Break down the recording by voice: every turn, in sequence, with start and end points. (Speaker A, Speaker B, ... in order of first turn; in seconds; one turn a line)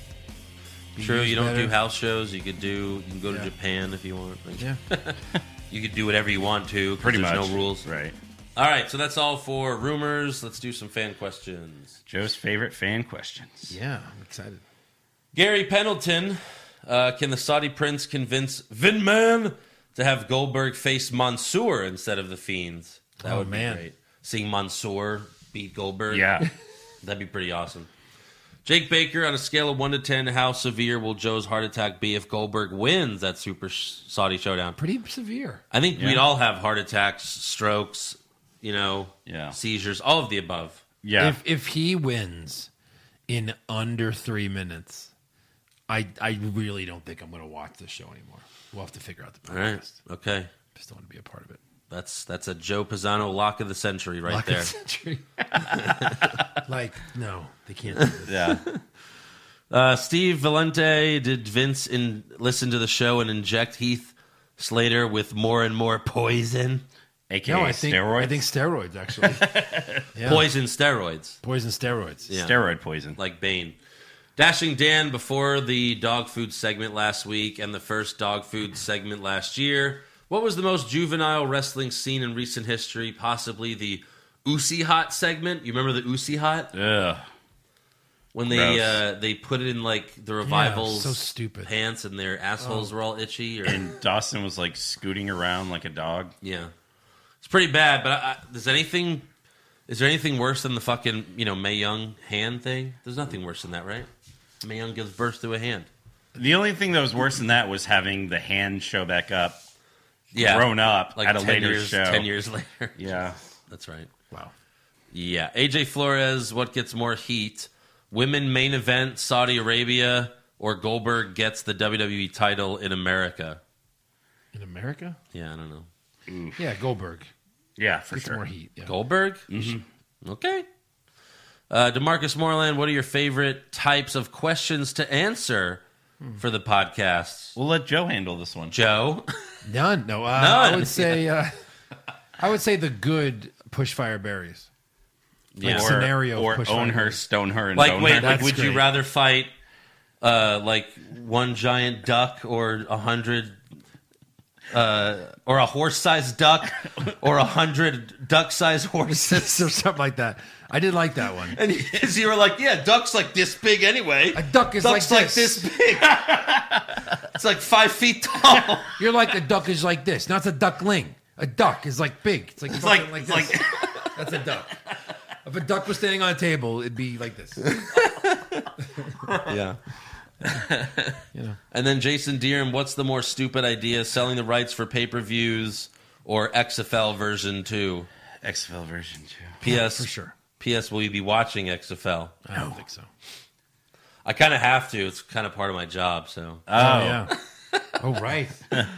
Speaker A: 1.0-1.7
Speaker B: 1.0-5.2
Speaker B: 5.7-7.9
Speaker C: 7.0-8.2
Speaker B: 8.6-12.0
Speaker C: 12.1-13.8
Speaker A: 13.7-14.6
Speaker B: 15.3-26.5
Speaker A: 23.2-23.8
Speaker C: 26.1-26.5
Speaker B: 27.0-27.9
Speaker B: 28.6-34.8
Speaker A: 34.8-35.6
Speaker B: 35.7-40.8
Speaker C: 36.0-36.3
Speaker C: 39.3-39.6
Speaker C: 41.0-41.4
Speaker A: 41.2-42.7
Speaker A: 43.3-45.1
Speaker A: 45.9-50.0
Speaker B: 49.5-50.5
Speaker A: 50.8-51.6
Speaker B: 51.9-54.7
Speaker A: 54.3-56.0
Speaker B: 55.8-56.4
Speaker A: 56.6-58.5
Speaker B: 58.0-58.8
Speaker C: 58.3-58.6
Speaker B: 59.7-66.8
Speaker C: 67.3-68.5
Speaker A: 67.5-69.5
Speaker C: 69.2-70.1
Speaker A: 70.1-70.5
Speaker B: 70.2-71.4
Speaker A: 71.4-72.3
Speaker B: 72.3-72.6
Speaker C: 72.3-73.2
Speaker B: 73.2-73.8
Speaker B: 74.4-86.7
Speaker C: 86.7-87.2
Speaker B: 88.3-93.9
Speaker C: 88.5-89.0
Speaker A: 90.4-91.7
Speaker A: 92.6-92.9
Speaker C: 93.6-96.3
Speaker B: 96.4-96.7
Speaker B: 97.4-99.3
Speaker B: 99.9-104.1
Speaker B: 104.6-105.9
Speaker C: 106.3-109.6
Speaker B: 110.3-114.1
Speaker C: 110.3-112.3
Speaker C: 113.0-113.4
Speaker B: 115.1-123.6
Speaker A: 124.5-125.2
Speaker B: 125.3-125.9
Speaker C: 126.3-126.6
Speaker A: 126.6-127.3
Speaker C: 127.8-128.4
Speaker A: 128.1-128.9
Speaker B: 128.9-130.7
Speaker C: 129.5-129.8
Speaker B: 131.7-135.8
Speaker B: 136.4-137.6
Speaker C: 137.6-138.8
Speaker B: 138.7-139.6
Speaker A: 139.6-141.5
Speaker B: 140.3-141.3
Speaker A: 142.4-144.7
Speaker B: 145.6-145.9
Speaker C: 145.6-148.5
Speaker A: 145.6-147.2
Speaker B: 147.8-149.5
Speaker A: 148.2-148.9
Speaker B: 150.2-153.6
Speaker B: 154.7-159.7
Speaker A: 159.1-161.6
Speaker B: 161.5-169.0
Speaker A: 164.3-165.7
Speaker C: 166.2-166.8
Speaker A: 169.0-174.8
Speaker C: 172.7-174.1
Speaker A: 175.4-177.7
Speaker B: 177.6-178.7
Speaker C: 179.2-179.6
Speaker B: 179.5-179.8
Speaker B: 181.7-188.1
Speaker C: 188.4-189.6
Speaker B: 189.6-192.4
Speaker A: 189.6-190.3
Speaker A: 192.5-193.1
Speaker B: 194.2-196.6
Speaker C: 196.7-197.3
Speaker A: 196.8-197.3
Speaker A: 198.0-198.7